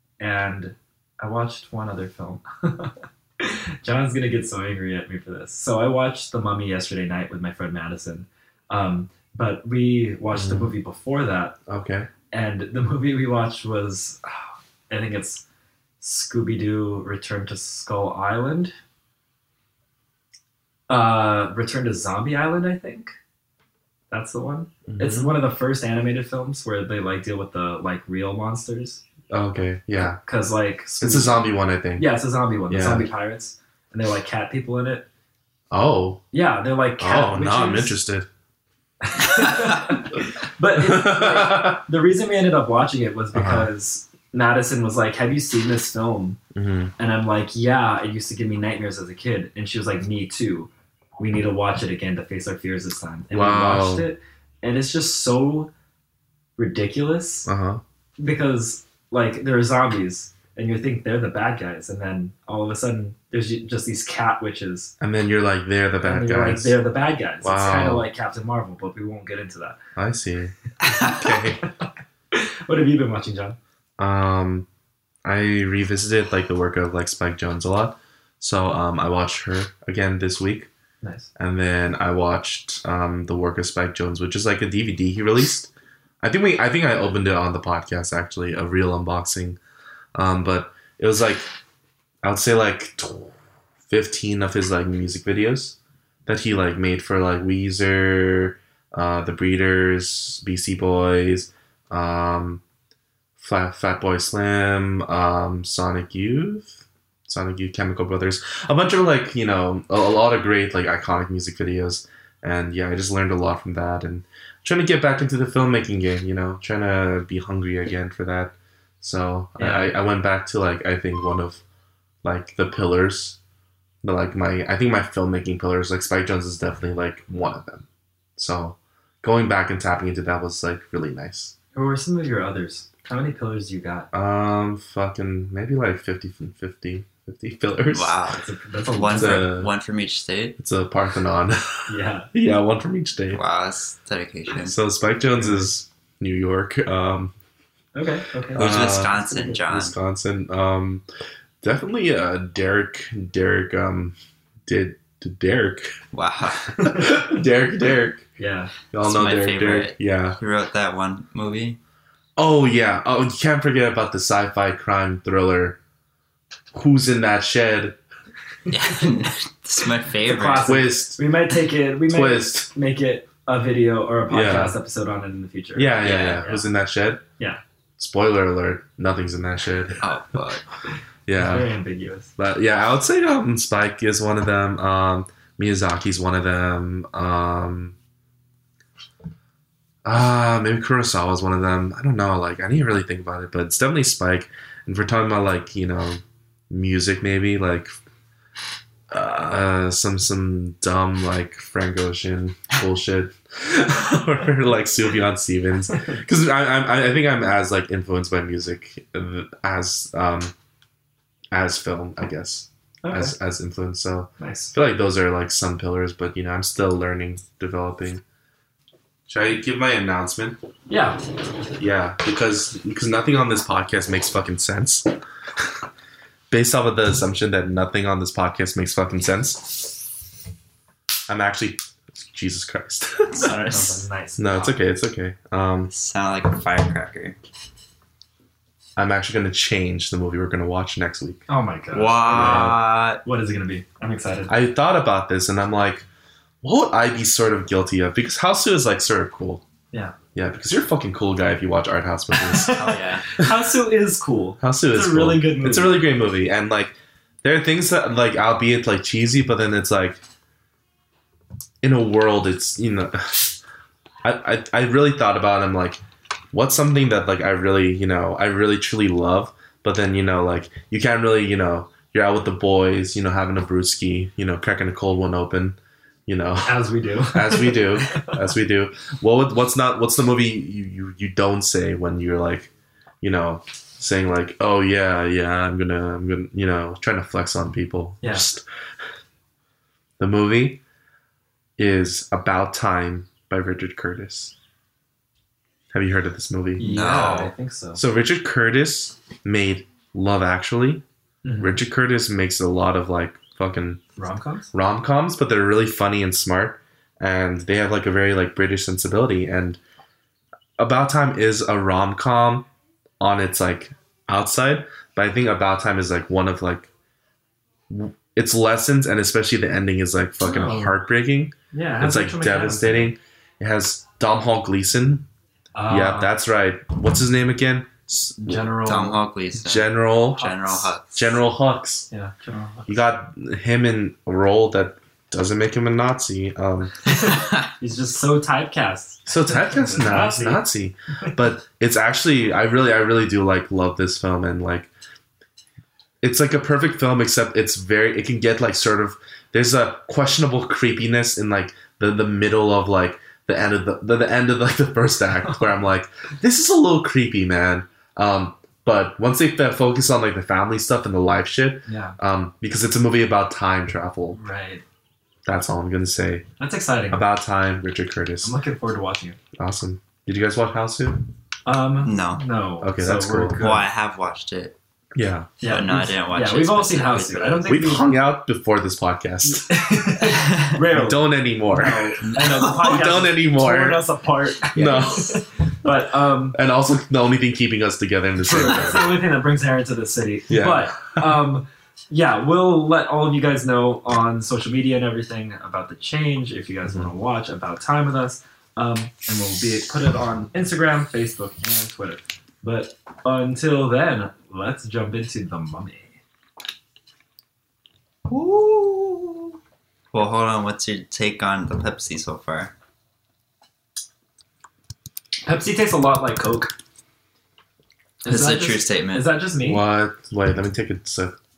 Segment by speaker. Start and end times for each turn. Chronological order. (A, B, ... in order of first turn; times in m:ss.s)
0:00.2-0:11.6 A
0:10.3-0:10.7 B
0:11.7-0:12.1 B
0:12.3-0:15.4 A
0:16.0-0:18.7 A
0:20.9-0:23.1 A
0:24.1-0:29.0 A
0:24.9-0:25.4 B
0:29.3-0:30.2 B
0:30.0-0:31.4 A
0:31.0-0:32.1 B
0:32.0-0:35.1 A
0:32.7-0:33.1 B
0:35.7-0:36.2 B
0:36.3-0:38.0 A
0:37.0-0:38.3 B
0:39.0-0:46.4 A
0:40.8-0:41.8 B
0:43.3-0:43.7 B
0:46.6-0:46.9 B
0:47.0-0:55.7 A
0:53.3-0:54.1 B
0:56.6-0:57.5 A
0:57.5-0:57.8 B
0:58.2-1:04.9 A
1:05.0-1:06.8 B
1:06.0-1:09.8 A
1:07.4-1:08.1 B
1:10.0-1:11.7 B
1:10.8-1:11.3 C
1:12.3-1:13.6 A
1:14.0-1:14.7 B
1:15.2-1:20.7 B
1:21.0-1:21.3 A
1:21.4-1:25.7 B
1:26.2-1:29.6 B
1:30.2-1:31.4 B
1:32.2-1:33.4 B
1:33.9-1:42.6 B
1:43.4-2:01.6 B
1:59.6-1:59.9 A
2:02.2-2:03.4 B
2:04.0-2:11.5 B
2:11.7-2:14.1 A
2:14.1-2:18.2 B
2:17.9-2:20.6 C
2:18.3-2:19.5 A
2:19.1-2:19.7 B
2:20.6-2:23.4 B
2:21.9-2:22.3 A
2:23.3-2:24.8 C
2:24.6-2:27.3 B
2:25.4-2:25.7 A
2:28.0-2:29.5 A
2:28.6-2:30.0 C
2:28.6-2:31.0 B
2:31.6-2:36.0 B
2:36.1-2:36.9 C
2:36.7-2:38.3 B
2:38.4-2:38.7 A
2:38.9-2:40.4 B
2:39.0-2:41.8 C
2:42.4-2:45.8 B
2:46.7-2:48.0 B
2:48.7-2:50.7 C
2:50.2-2:56.7 A
2:50.6-2:51.2 B
2:52.1-2:52.7 B
2:54.3-2:54.8 B
2:55.8-2:57.2 B
2:56.0-2:56.5 C
2:58.0-3:00.0 B
3:00.0-3:00.6 C
3:01.3-3:01.7 B
3:01.4-3:02.3 A
3:02.4-3:08.0 B
3:10.0-3:17.9 B
3:19.1-3:30.5 B
3:31.5-3:38.2 B
3:33.0-3:33.3 A
3:34.4-3:34.7 A
3:39.3-3:40.6 B
3:40.9-3:41.2 A
3:41.8-3:45.7 B
3:46.5-3:49.9 B
3:51.3-3:53.5 B
3:53.4-3:54.0 C
3:53.6-3:54.8 A
3:54.4-3:55.9 B
3:55.9-3:57.4 C
3:59.0-4:01.4 B
4:01.5-4:04.5 A
4:01.9-4:03.2 C
4:02.3-4:02.8 B
4:04.5-4:06.1 B
4:06.6-4:09.6 B
4:10.4-4:12.9 B
4:12.3-4:16.1 A
4:12.7-4:13.3 C
4:14.6-4:20.2 B
4:21.8-4:23.6 B
4:24.2-4:26.0 B
4:26.5-4:42.7 B
4:36.6-4:38.3 A
4:43.2-4:48.6 B
4:48.2-4:48.5 A
4:50.2-4:50.8 B
4:51.8-4:54.5 B
4:55.9-4:56.9 B
4:56.8-4:58.0 A
4:56.8-4:57.5 C
4:58.0-5:01.0 B
5:01.4-5:01.8 A
5:01.6-5:04.0 B
5:04.2-5:04.7 A
5:04.7-5:09.8 B
5:10.8-5:12.7 B
5:13.2-5:16.9 B
5:17.9-5:25.3 B
5:20.4-5:21.0 A
5:21.7-5:23.1 A
5:25.8-5:26.3 A
5:25.9-5:28.7 B
5:28.4-5:29.2 A
5:28.8-5:31.4 C
5:29.6-5:32.1 B
5:32.1-5:32.9 A
5:32.9-5:37.0 B
5:37.1-5:40.7 A
5:37.3-5:37.6 C
5:39.3-5:44.9 B
5:46.2-6:04.4 B
6:01.9-6:02.2 A
6:04.3-6:04.8 A
6:05.4-6:06.4 B
6:06.6-6:07.2 A
6:07.1-6:08.6 B
6:08.4-6:09.4 A
6:09.6-6:11.3 B
6:11.7-6:13.9 A
6:12.0-6:12.4 C
6:12.8-6:13.7 B
6:13.6-6:14.8 C
6:15.2-6:15.6 B
6:15.6-6:18.1 A
6:15.7-6:17.7 C
6:17.7-6:19.7 B
6:19.4-6:26.6 A
6:20.3-6:20.7 C
6:20.9-6:24.0 B
6:22.2-6:23.0 C
6:24.7-6:25.4 B
6:26.5-6:29.2 B
6:28.4-6:46.2 A
6:30.5-6:31.4 B
6:48.3-6:49.5 C
6:50.1-6:52.7 C
6:55.4-6:56.7 A
6:58.2-6:59.8 A
6:58.3-6:59.3 C
6:59.6-7:01.4 B